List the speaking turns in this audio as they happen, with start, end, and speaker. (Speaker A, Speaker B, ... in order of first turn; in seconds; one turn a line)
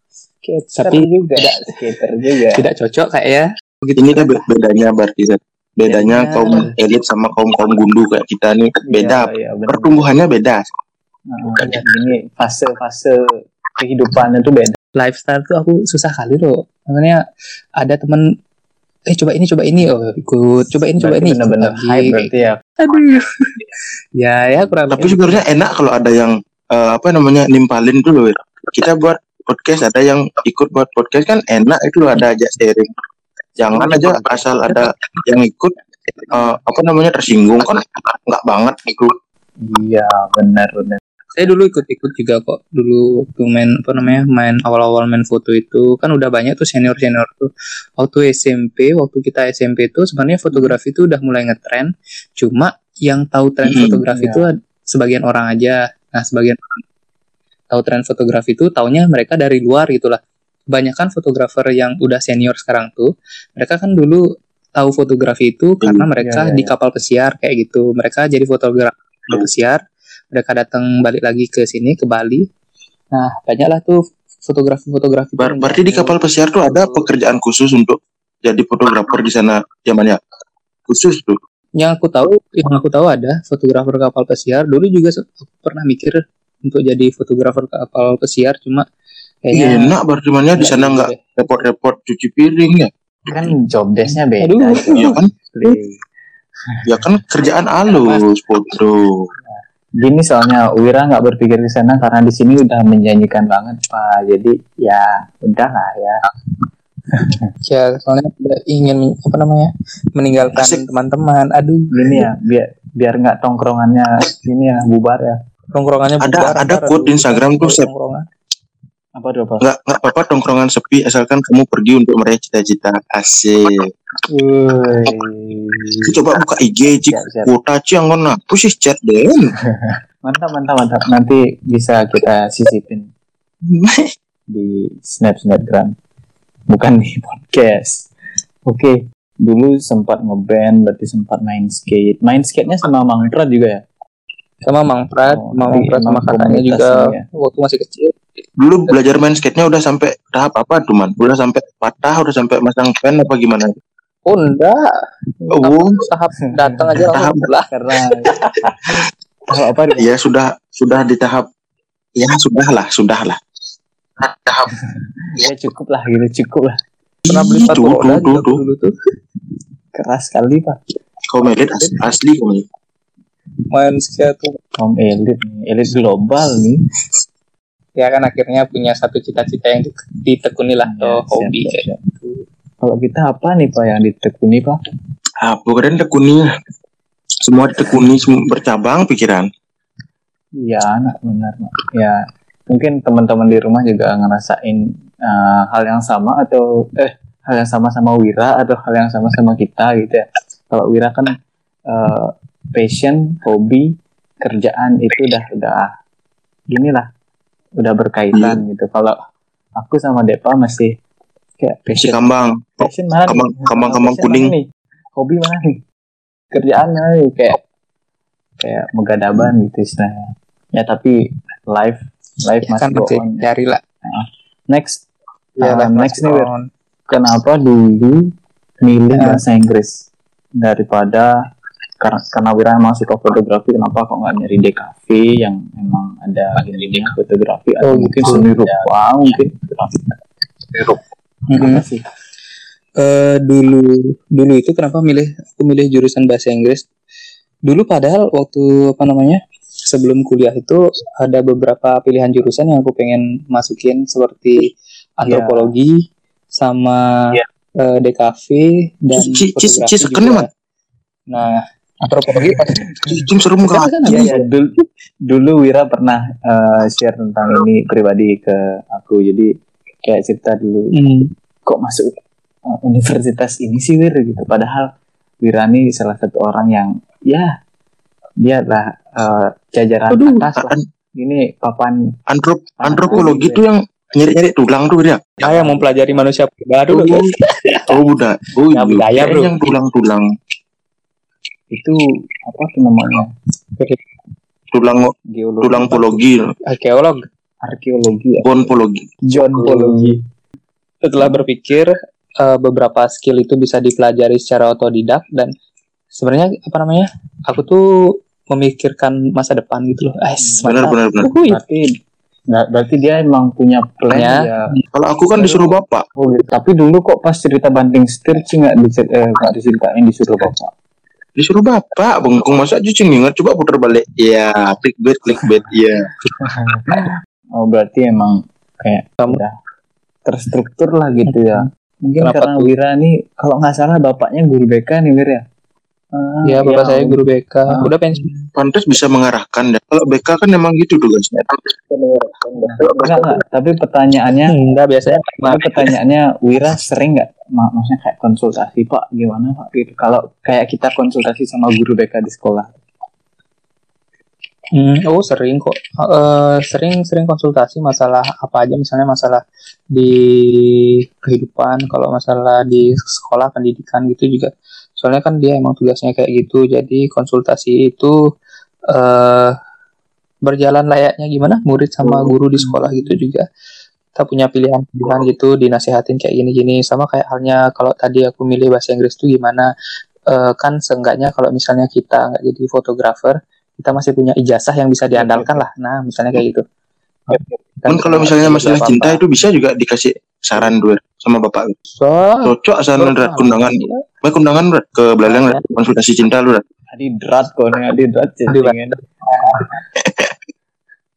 Speaker A: 0.4-2.6
Speaker B: 0.8-1.7
Speaker B: 2.5-4.5
Speaker C: 4.0-10.6
Speaker B: 5.9-6.7
Speaker A: 8.9-10.0
Speaker A: 11.3-14.8
Speaker B: 14.9-17.2
Speaker B: 17.8-18.2
Speaker B: 19.1-23.5
Speaker A: 21.0-22.6
Speaker B: 24.2-25.4
Speaker C: 24.9-32.9
Speaker C: 33.6-35.7
Speaker B: 33.7-34.9
Speaker C: 36.3-39.1
Speaker A: 39.6-41.0
Speaker B: 41.3-56.8
Speaker C: 53.7-54.0
Speaker A: 54.1-54.5
Speaker B: 57.7-60.2
Speaker B: 60.7-64.2
Speaker B: 64.8-69.8
Speaker A: 66.2-66.7
Speaker B: 70.3-72.5
Speaker B: 73.1-77.1
Speaker C: 75.4-80.2
Speaker C: 80.9-81.4
Speaker B: 81.8-88.8
Speaker B: 89.5-89.9
Speaker C: 89.5-92.9
Speaker B: 90.6-91.2
Speaker A: 93.3-96.0
Speaker B: 94.4-95.1
Speaker C: 95.0-95.3
Speaker A: 96.7-97.1
Speaker C: 96.8-99.3
Speaker B: 97.9-98.2
Speaker A: 100.0-106.2
Speaker A: 107.2-107.5
Speaker B: 107.7-112.3
Speaker C: 110.5-110.8
Speaker A: 111.9-115.4
Speaker B: 115.7-118.2
Speaker C: 116.2-117.9
Speaker A: 119.2-119.6
Speaker C: 119.6-123.7
Speaker A: 124.3-126.1
Speaker C: 126.1-129.5
Speaker A: 127.1-127.5
Speaker A: 129.7-133.1
Speaker C: 133.7-134.1
Speaker A: 134.5-135.9
Speaker A: 136.7-138.1
Speaker A: 138.6-143.8
Speaker B: 144.6-148.1
Speaker A: 145.3-147.2
Speaker C: 148.6-153.7
Speaker B: 154.2-154.8
Speaker B: 155.5-157.7
Speaker C: 155.5-156.0
Speaker C: 157.1-157.4
Speaker A: 157.7-158.7
Speaker A: 159.5-160.1
Speaker C: 160.0-161.5
Speaker C: 162.2-163.4
Speaker C: 164.2-164.7
Speaker A: 165.3-166.8
Speaker C: 167.2-168.6
Speaker B: 167.3-168.9
Speaker A: 169.9-170.8
Speaker C: 171.3-172.6
Speaker B: 173.7-174.6
Speaker A: 174.8-176.8
Speaker B: 178.0-182.3
Speaker A: 180.9-182.0
Speaker A: 182.8-184.8
Speaker C: 185.4-186.4
Speaker C: 187.4-189.5
Speaker A: 190.6-192.2
Speaker A: 192.7-201.3
Speaker A: 201.9-203.9
Speaker A: 204.4-205.9
Speaker A: 206.7-207.1
Speaker A: 207.8-209.2
Speaker C: 208.3-208.6
Speaker A: 209.8-210.9
Speaker A: 211.6-212.3
Speaker C: 212.0-214.5
Speaker A: 212.8-215.8
Speaker A: 216.5-217.6
Speaker A: 218.6-221.1
Speaker A: 221.7-223.4
Speaker B: 222.6-223.8
Speaker A: 224.0-225.1
Speaker B: 225.6-226.7
Speaker A: 225.6-226.5
Speaker A: 227.1-228.2
Speaker A: 228.8-230.0
Speaker B: 229.2-229.4
Speaker A: 230.6-231.3
Speaker A: 232.0-240.1
Speaker B: 237.8-238.5
Speaker B: 241.5-241.8
Speaker A: 241.6-242.0
Speaker B: 243.0-246.8
Speaker B: 247.7-254.7
Speaker B: 255.2-255.9
Speaker A: 255.3-255.7
Speaker B: 256.6-260.4
Speaker C: 259.1-260.4
Speaker B: 261.3-262.8
Speaker A: 262.7-263.3
Speaker C: 263.1-264.3
Speaker B: 263.7-264.5
Speaker A: 264.1-264.7
Speaker A: 265.2-269.5
Speaker A: 270.0-270.9
Speaker B: 270.9-271.3
Speaker A: 271.6-274.9
Speaker A: 275.4-277.5
Speaker A: 278.4-282.0
Speaker B: 280.1-280.4
Speaker C: 282.3-285.4
Speaker A: 282.8-283.6
Speaker A: 285.4-286.3
Speaker B: 285.4-287.9
Speaker C: 286.9-287.3
Speaker C: 287.9-290.2
Speaker B: 288.7-289.5
Speaker A: 291.7-293.3
Speaker C: 294.7-296.5
Speaker A: 295.3-296.3
Speaker B: 296.7-297.2
Speaker A: 297.6-298.4
Speaker C: 298.4-299.1
Speaker A: 299.2-300.2
Speaker B: 299.5-300.1
Speaker B: 301.0-305.5
Speaker B: 306.1-307.8
Speaker B: 308.5-311.6
Speaker A: 310.4-310.9
Speaker C: 310.6-311.3
Speaker A: 311.5-311.8
Speaker A: 312.5-314.6
Speaker B: 314.1-314.8
Speaker C: 314.9-316.0
Speaker A: 316.2-320.7
Speaker C: 321.4-326.1
Speaker A: 326.4-329.5
Speaker A: 330.2-335.4
Speaker B: 331.2-331.7
Speaker B: 332.2-332.7
Speaker A: 336.1-337.2
Speaker B: 336.4-338.2
Speaker A: 337.7-338.4
Speaker C: 338.6-343.2
Speaker A: 342.6-344.6
Speaker B: 344.5-345.9
Speaker A: 345.4-352.8
Speaker B: 354.7-359.4
Speaker B: 359.9-368.1
Speaker B: 368.9-369.5
Speaker B: 370.4-373.4
Speaker A: 372.0-373.2
Speaker B: 374.2-379.7
Speaker B: 380.3-386.6
Speaker A: 385.1-385.7
Speaker B: 387.3-389.2
Speaker C: 387.9-391.7
Speaker B: 392.0-394.0
Speaker C: 392.4-396.6
Speaker B: 395.3-395.6
Speaker A: 396.9-398.9
Speaker B: 398.5-399.6